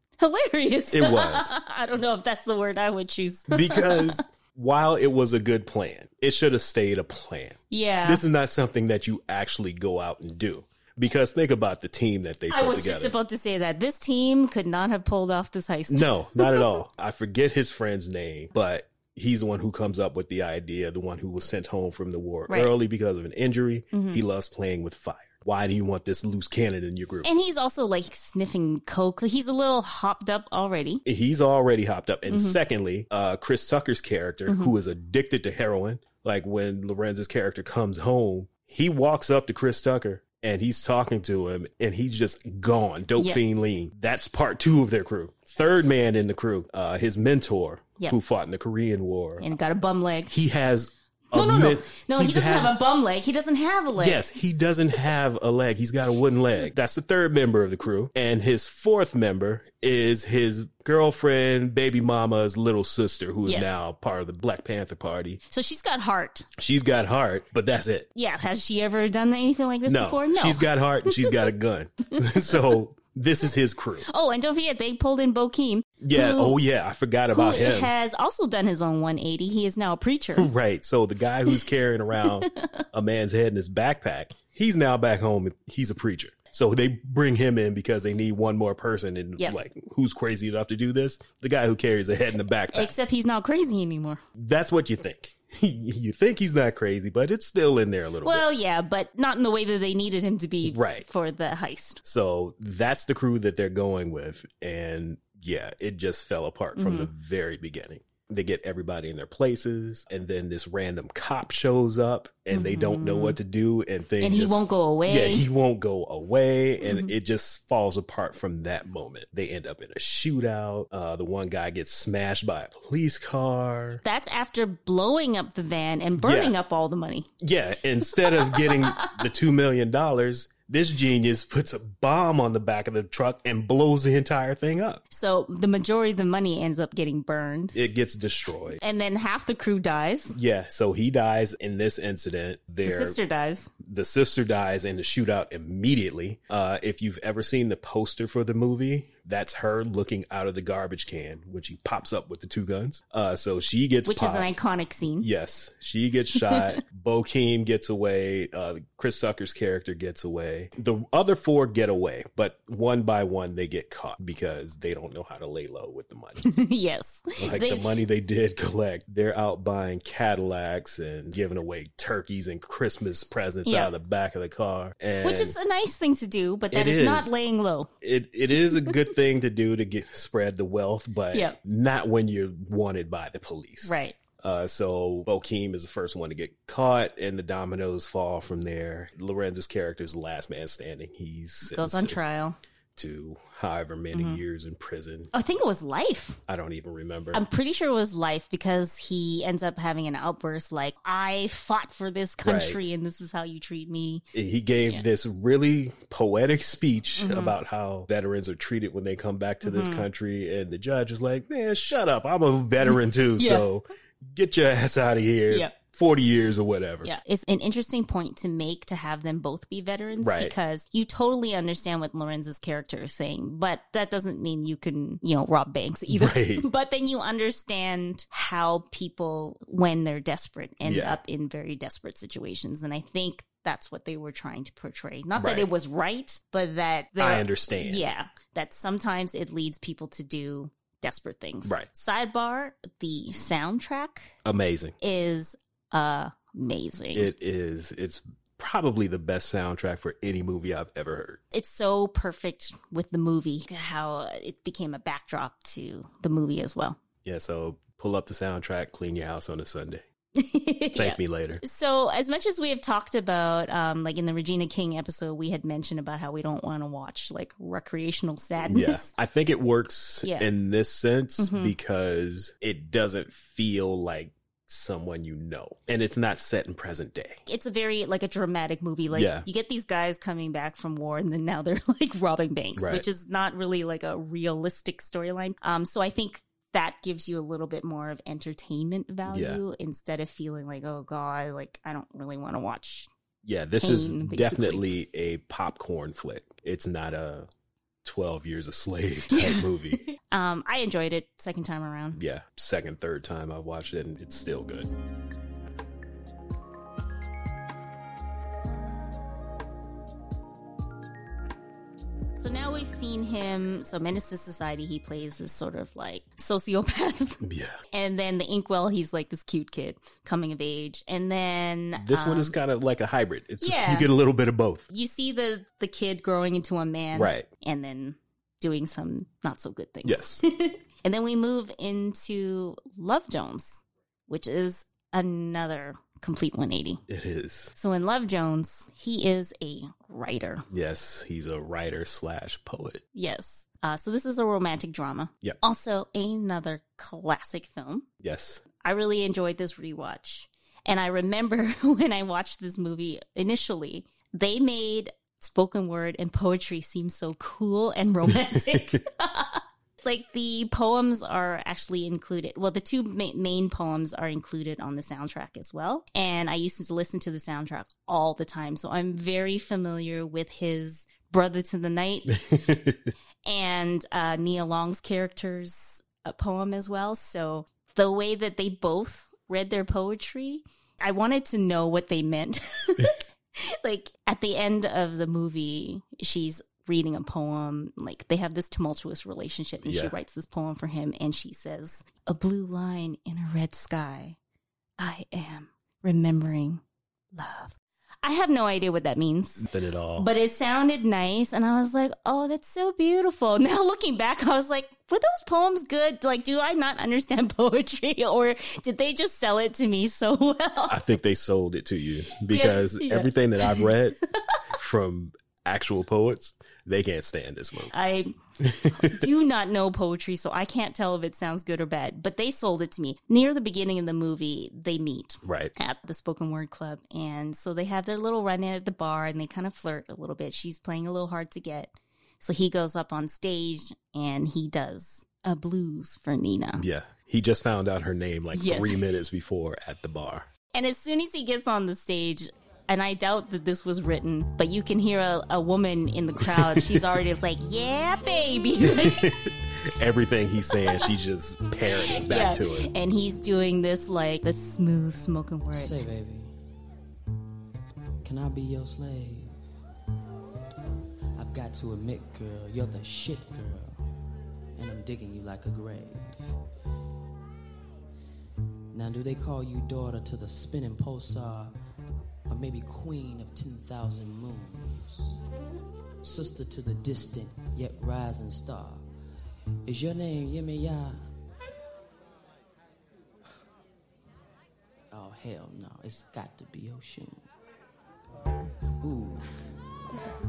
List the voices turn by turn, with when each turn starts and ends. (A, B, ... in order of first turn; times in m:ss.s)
0:00.2-0:04.2 A
0:00.9-0:01.5 B
0:03.5-0:13.1 B
0:07.7-0:08.2 A
0:12.5-0:16.7 A
0:15.9-0:27.3 B
0:22.5-0:22.8 A
0:23.9-0:24.2 A
0:27.2-0:31.0 A
0:31.0-0:49.5 B
0:32.3-0:32.6 A
0:34.4-0:34.7 A
0:49.4-0:50.3 A
0:50.3-0:52.8 B
0:51.3-0:54.2 A
0:53.9-1:05.4 B
1:03.4-1:03.8 A
1:05.5-1:06.5 A
1:06.6-1:08.1 B
1:08.1-1:11.4 A
1:09.8-1:14.0 B
1:14.0-1:16.6 A
1:16.0-1:17.9 B
1:17.3-1:20.5 A
1:20.4-1:32.9 B
1:22.2-1:22.8 A
1:32.7-1:34.2 A
1:34.4-1:38.4 B
1:38.2-1:42.0 A
1:40.6-1:41.1 B
1:42.0-2:04.0 B
1:46.7-1:47.1 A
1:52.5-1:53.4 A
1:54.2-1:55.4 A
1:56.8-1:57.1 A
2:04.0-2:07.3 A
2:06.2-2:06.5 B
2:07.4-2:15.0 B
2:08.1-2:09.3 A
2:15.1-2:17.8 A
2:17.7-2:18.8 B
2:18.8-2:20.4 A
2:20.3-2:23.2 B
2:22.8-2:23.7 A
2:23.8-2:34.5 B
2:34.0-2:35.3 A
2:35.2-2:46.4 B
2:36.3-2:36.8 A
2:46.4-2:47.9 A
2:47.4-2:55.6 B
2:53.6-2:53.9 A
2:55.2-2:57.9 A
2:56.7-2:57.3 B
2:58.0-3:12.2 B
3:03.8-3:04.2 A
3:11.6-3:12.6 A
3:13.0-3:15.3 B
3:14.1-3:14.4 A
3:15.3-3:16.4 A
3:16.5-3:17.4 B
3:17.3-3:24.2 A
3:22.4-3:22.8 B
3:24.3-3:37.1 B
3:27.2-3:27.5 A
3:29.6-3:30.0 A
3:32.9-3:33.6 A
3:35.5-3:35.7 A
3:37.0-4:04.4 A
3:40.2-3:40.6 B
3:46.1-3:46.6 B
3:50.8-3:51.2 B
3:55.4-3:55.7 B
3:57.2-3:58.1 B
4:04.4-4:04.9 B
4:05.0-4:07.3 A
4:07.1-4:11.4 B
4:11.5-4:17.0 A
4:17.2-4:20.0 B
4:20.4-4:29.1 A
4:21.0-4:21.6 B
4:28.7-4:37.4 B
4:31.4-4:31.7 A
4:37.5-4:53.1 A
4:39.1-4:39.4 B
4:42.8-4:43.0 B
4:49.3-4:49.6 B
4:53.4-4:57.5 B
4:53.8-4:54.9 A
4:58.0-5:00.0 B
4:59.3-5:02.2 A
5:02.1-5:04.9 B
5:12.4-5:22.5 A
5:17.4-5:17.8 B
5:22.0-5:24.9 B
5:23.6-5:24.1 A
5:24.9-5:37.0 A
5:27.1-5:27.5 B
5:30.0-5:30.4 B
5:37.1-5:37.7 B
5:37.7-5:40.6 A
5:40.7-5:43.0 B
5:43.1-5:48.1 A
5:48.2-5:48.6 B
5:48.8-6:12.5 A
5:58.3-5:59.0 B
6:12.5-6:13.1 B
6:13.4-6:34.4 A
6:29.8-6:30.1 B
6:35.0-6:36.8 A
6:37.3-6:51.0 A
6:39.6-6:40.3 B
6:50.9-6:54.2 B
6:52.5-6:54.6 A
6:54.7-6:57.9 B
6:57.9-7:16.8 A
6:58.6-6:59.3 B
7:05.4-7:05.7 B
7:16.8-7:20.5 B
7:18.5-7:19.0 A
7:20.7-7:29.3 A
7:26.4-7:27.1 B
7:28.8-7:32.9 B
7:32.0-7:36.0 A
7:35.7-7:36.5 C
7:38.2-7:39.6 C
7:41.4-7:44.1 C
7:44.8-7:46.5 C
7:48.9-7:51.7 C
7:52.5-7:55.4 C
7:56.2-7:59.1 C
7:59.8-8:01.2 C
8:05.1-8:07.5 C
8:09.0-8:09.5 C